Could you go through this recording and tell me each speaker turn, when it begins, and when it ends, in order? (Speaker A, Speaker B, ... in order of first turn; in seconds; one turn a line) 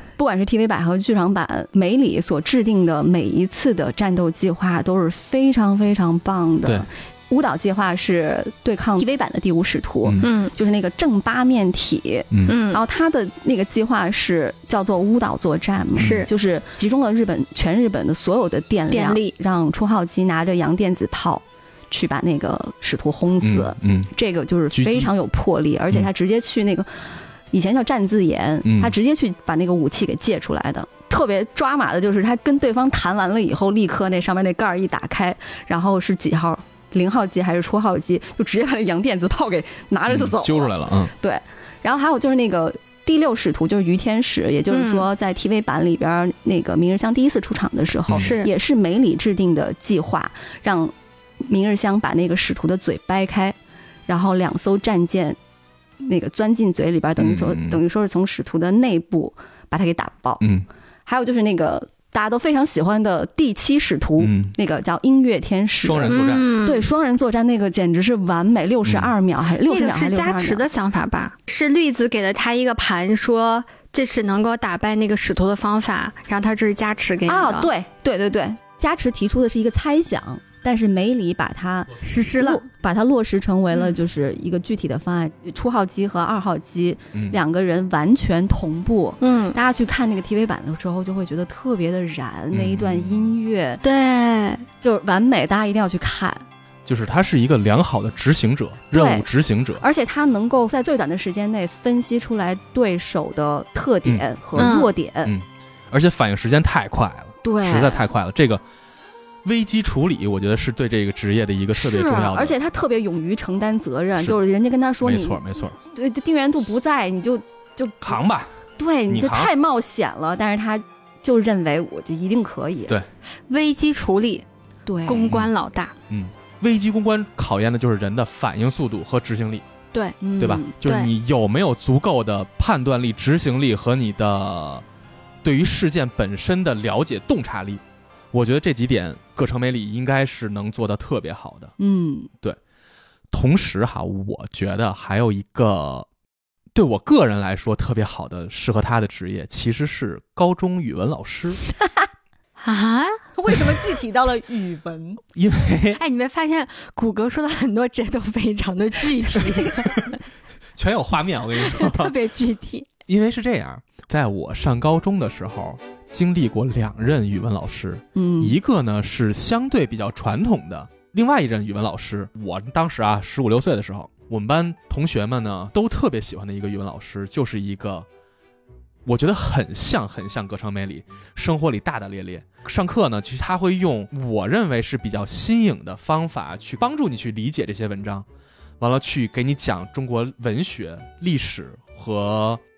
Speaker A: 0.2-53.5
Speaker B: 10.0-10.3
Speaker C: 10.2-10.5
Speaker B: 12.3-12.6
Speaker C: 12.5-12.8
Speaker C: 16.0-16.3
Speaker B: 16.0-16.2
Speaker C: 18.9-19.3
Speaker B: 23.4-24.1
Speaker B: 24.7-25.1
Speaker B: 28.6-28.9
Speaker B: 40.1-41.1
Speaker C: 44.7-45.1
Speaker C: 48.1-48.5
Speaker A: 54.1-55.4
Speaker A: 56.0-60.5
Speaker B: 57.2-57.8
Speaker A: 61.0-70.6
Speaker B: 64.2-64.5
Speaker B: 65.8-66.5
Speaker C: 66.1-66.9
Speaker B: 68.8-69.1
Speaker C: 69.7-77.7
Speaker A: 77.3-93.8
Speaker C: 82.0-82.6
Speaker C: 89.2-89.6
Speaker B: 92.5-93.3
Speaker C: 93.8-94.6
Speaker A: 94.8-96.4
Speaker B: 96.8-99.8
Speaker A: 98.9-99.3
Speaker A: 99.8-105.3
Speaker B: 104.0-108.6
Speaker C: 104.6-104.9
Speaker A: 107.4-108.1
Speaker B: 109.4-112.5
Speaker A: 111.8-118.2
Speaker B: 115.0-115.8
Speaker B: 118.0-118.5
Speaker A: 118.8-123.0
Speaker B: 119.1-119.5
Speaker C: 123.5-124.4
Speaker A: 124.9-125.3
Speaker C: 125.0-125.9
Speaker B: 126.1-129.6
Speaker A: 130.2-130.7
Speaker B: 130.4-134.8
Speaker C: 130.8-131.1
Speaker B: 135.4-141.7
Speaker A: 141.8-142.3
Speaker B: 143.3-146.1
Speaker B: 146.7-151.6
Speaker C: 152.6-153.2
Speaker A: 153.3-155.2
Speaker B: 155.3-156.0
Speaker C: 156.0-160.2
Speaker B: 159.6-160.1
Speaker B: 160.7-162.2
Speaker C: 161.6-162.9
Speaker B: 163.1-178.1
Speaker A: 168.1-168.6
Speaker B: 179.1-188.2
Speaker B: 188.8-192.6